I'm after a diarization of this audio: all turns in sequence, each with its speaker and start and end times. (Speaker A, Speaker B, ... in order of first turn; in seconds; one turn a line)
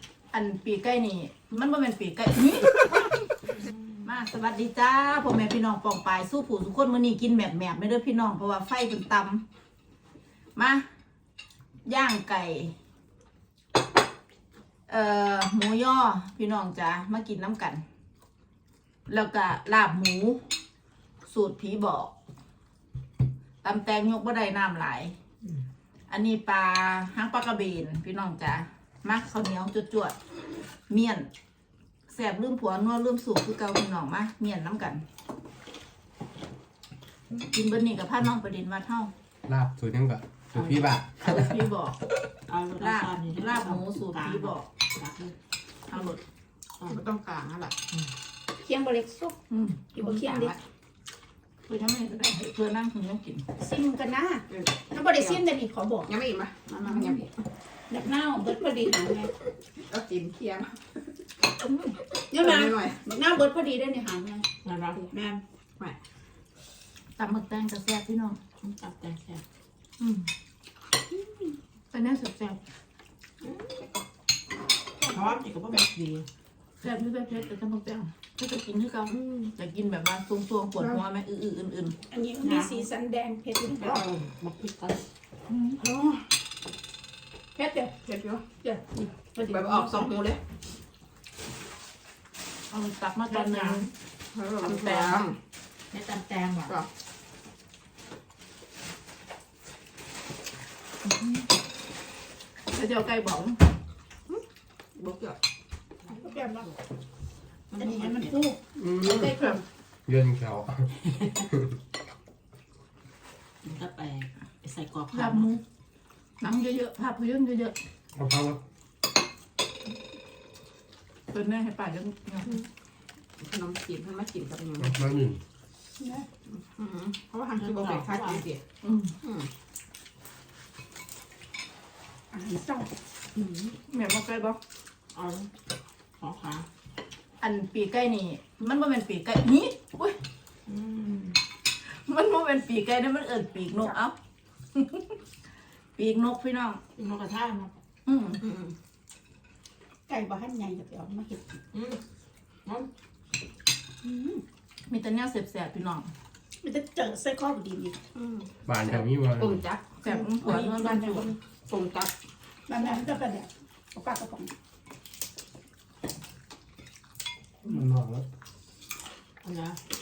Speaker A: 0.3-3.1
Speaker B: 3.5-4.1
Speaker A: 4.0-9.4
Speaker A: 10.6-10.9
Speaker A: 11.9-12.7
Speaker A: 14.9-17.8
Speaker A: 19.1-20.4
Speaker A: 21.2-22.1
Speaker A: 23.6-25.1
Speaker A: 26.1-30.1
Speaker A: 30.9-31.3
Speaker A: 32.1-35.0
Speaker A: 37.5-39.1
Speaker C: 39.5-41.6
Speaker A: 41.2-42.0
Speaker B: 42.5-45.4
Speaker A: 42.8-44.7
Speaker A: 45.9-46.2
Speaker B: 46.8-47.0
Speaker D: 46.9-47.8
Speaker E: 48.6-49.4
Speaker A: 49.5-49.9
Speaker E: 49.9-50.5
Speaker D: 50.0-50.6
Speaker A: 51.7-53.5
Speaker E: 53.6-56.1
Speaker D: 54.5-55.4
Speaker D: 56.1-57.4
Speaker E: 57.9-59.3
Speaker D: 59.9-60.8
Speaker A: 61.6-62.0
Speaker E: 62.3-64.5
Speaker D: 62.3-63.0
Speaker B: 64.6-65.0
Speaker E: 65.1-65.4
Speaker A: 67.2-68.4
Speaker B: 68.6-69.4
Speaker A: 70.0-70.3
Speaker A: 71.9-72.6
Speaker B: 73.4-73.7
Speaker B: 75.0-76.3
Speaker A: 76.8-82.0
Speaker D: 79.1-79.5
Speaker E: 82.1-84.1
Speaker B: 82.4-82.9
Speaker B: 83.8-85.1
Speaker A: 85.5-85.8
Speaker D: 85.8-86.2
Speaker E: 87.5-88.0
Speaker D: 88.0-88.4
Speaker E: 88.6-90.1
Speaker D: 89.4-90.4
Speaker A: 92.7-93.9
Speaker B: 93.3-93.9
Speaker D: 94.3-95.4
Speaker A: 94.6-95.2
Speaker B: 95.9-96.8
Speaker A: 101.0-101.5
Speaker A: 102.7-103.7
Speaker D: 105.0-105.4
Speaker E: 106.1-106.7
Speaker B: 106.1-106.8
Speaker B: 107.7-108.3
Speaker E: 107.8-109.5
Speaker C: 108.8-109.3
Speaker A: 109.1-109.6
Speaker C: 110.1-110.9
Speaker B: 111.0-111.5
Speaker B: 113.6-115.5
Speaker A: 115.1-115.6
Speaker A: 116.4-117.8
Speaker C: 118.1-118.6
Speaker A: 121.3-122.6
Speaker D: 123.4-125.0
Speaker C: 124.8-125.4
Speaker E: 126.0-126.3
Speaker D: 126.5-128.6
Speaker B: 127.6-128.5
Speaker A: 128.8-129.2
Speaker D: 129.2-129.5
Speaker E: 132.3-132.9
Speaker D: 133.4-133.7
Speaker A: 133.8-134.6
Speaker B: 135.1-135.5
Speaker B: 136.2-136.7
Speaker A: 137.4-140.2
Speaker B: 140.7-141.4
Speaker A: 141.8-144.2
Speaker A: 144.8-145.1
Speaker A: 146.0-146.8
Speaker B: 147.0-147.7
Speaker A: 148.1-148.4
Speaker D: 148.4-148.7
Speaker E: 150.1-151.5
Speaker B: 151.7-152.0
Speaker B: 152.7-152.9
Speaker E: 154.0-154.4
Speaker A: 154.9-156.1
Speaker E: 156.6-158.0
Speaker D: 158.2-162.1
Speaker C: 158.7-159.7
Speaker A: 160.0-161.2
Speaker E: 160.1-161.2
Speaker E: 162.7-164.5
Speaker C: 167.7-168.3
Speaker B: 169.4-169.8